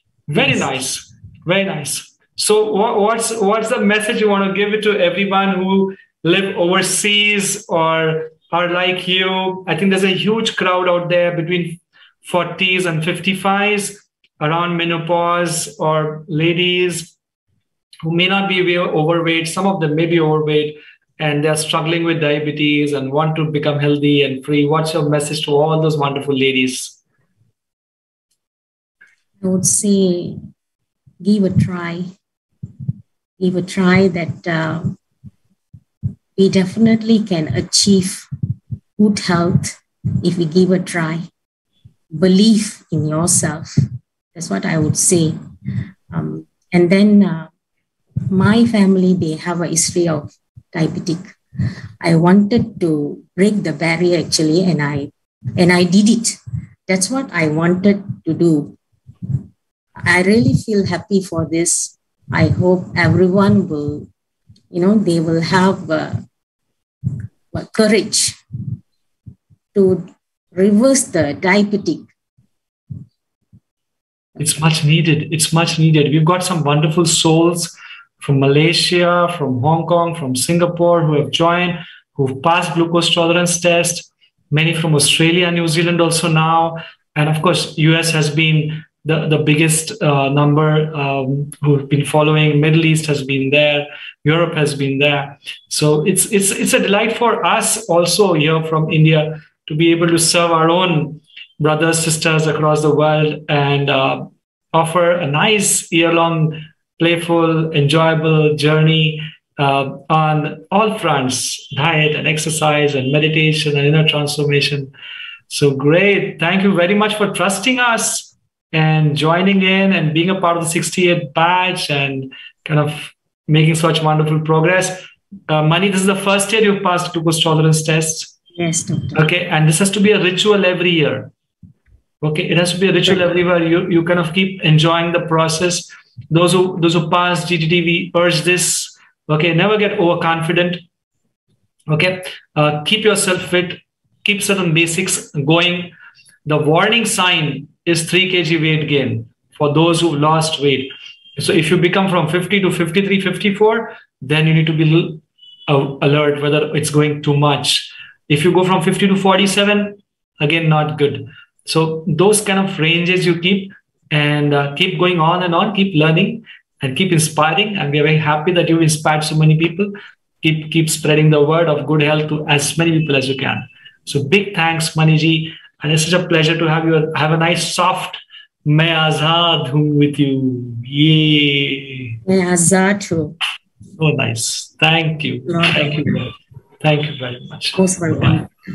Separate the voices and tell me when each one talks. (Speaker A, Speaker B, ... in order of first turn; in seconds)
Speaker A: 0.3-17.1, 18.0-27.0, 74.4-114.9, 115.5-128.3, 129.2-131.3, 132.2-140.8, 141.9-145.9, 146.4-182.2, 184.0-188.4
Speaker B: 29.4-30.4, 31.2-32.1, 33.4-35.0, 36.4-38.3, 39.0-41.2, 42.1-43.7, 44.3-45.4, 46.1-47.5, 48.3-51.4, 52.0-56.4, 56.9-58.8, 60.0-64.1, 64.7-66.2, 67.5-68.4, 69.7-72.1, 128.6-129.3, 182.3-183.4, 185.5-186.2, 187.8-188.5